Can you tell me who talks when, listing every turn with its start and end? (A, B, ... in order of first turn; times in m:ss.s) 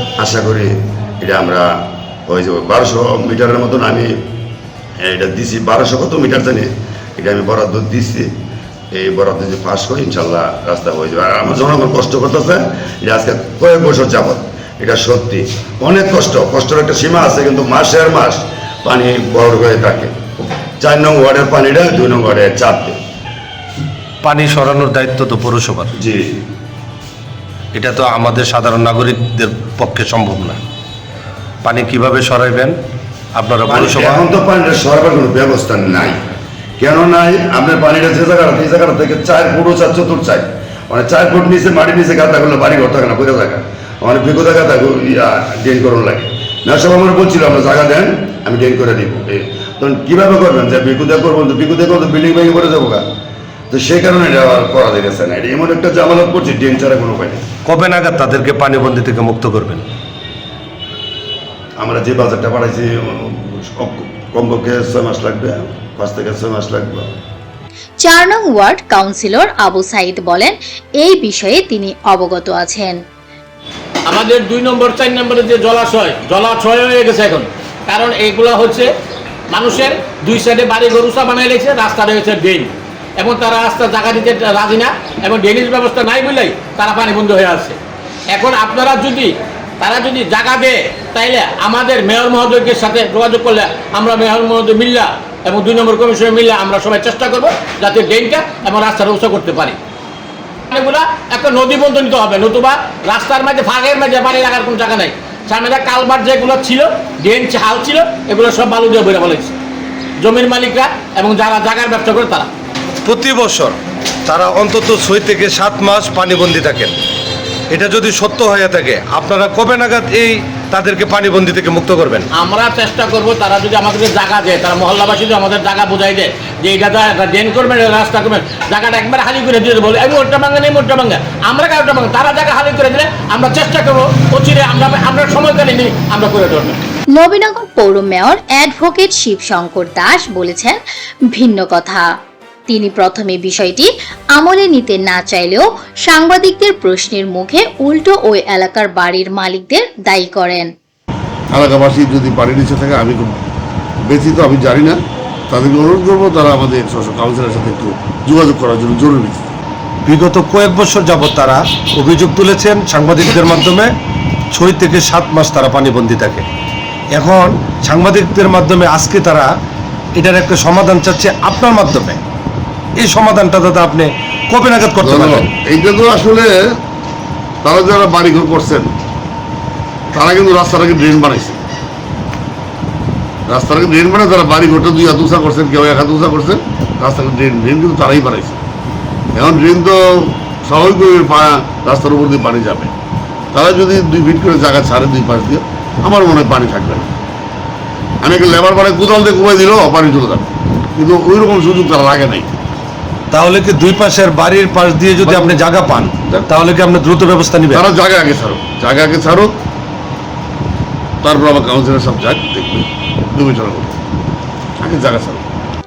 0:00.2-0:01.7 A
0:02.3-0:04.1 A
0:05.0-0:08.3 A
0:08.9-0:20.1 A
0:20.8-0:23.0 A
0:24.2-0:25.9 B
0:27.8-0:30.6 B
0:31.6-0:32.8 B
0:33.4-0:34.2 B
0:33.7-0:36.2 A
0:36.8-0:53.0 A
0:53.7-0:57.4 A
0:57.7-0:59.8 B
1:01.8-1:07.1 A
1:08.0-1:13.0 C
1:14.1-1:18.9 D
1:19.5-1:27.8 D
1:28.3-1:39.8 D
1:40.7-1:49.6 D
1:50.2-1:52.5 D
1:53.1-1:56.9 B
1:57.7-2:02.3 B
2:02.4-2:16.8 D
2:17.2-2:20.8 C
2:21.3-2:22.1 C
2:22.7-2:30.7 C
2:31.5-2:33.3 E
2:34.1-2:35.0 E
2:35.5-2:39.5 E
2:40.1-2:43.9 B
2:44.5-2:46.5 B
2:47.2-2:49.5 B
2:50.2-2:52.2 B
2:53.0-2:55.5 B
2:55.0-2:56.6 E
2:57.6-2:58.9 E
3:00.1-3:01.6 E
3:03.5-3:08.6 E
3:09.4-3:12.9 E
3:13.5-3:17.1 E
3:18.2-3:20.4 E
3:21.0-3:22.5 E
3:23.3-3:27.9 B
3:25.2-3:25.7 E
3:27.7-3:29.5 E
3:31.2-3:33.9 E
3:34.8-3:35.4 E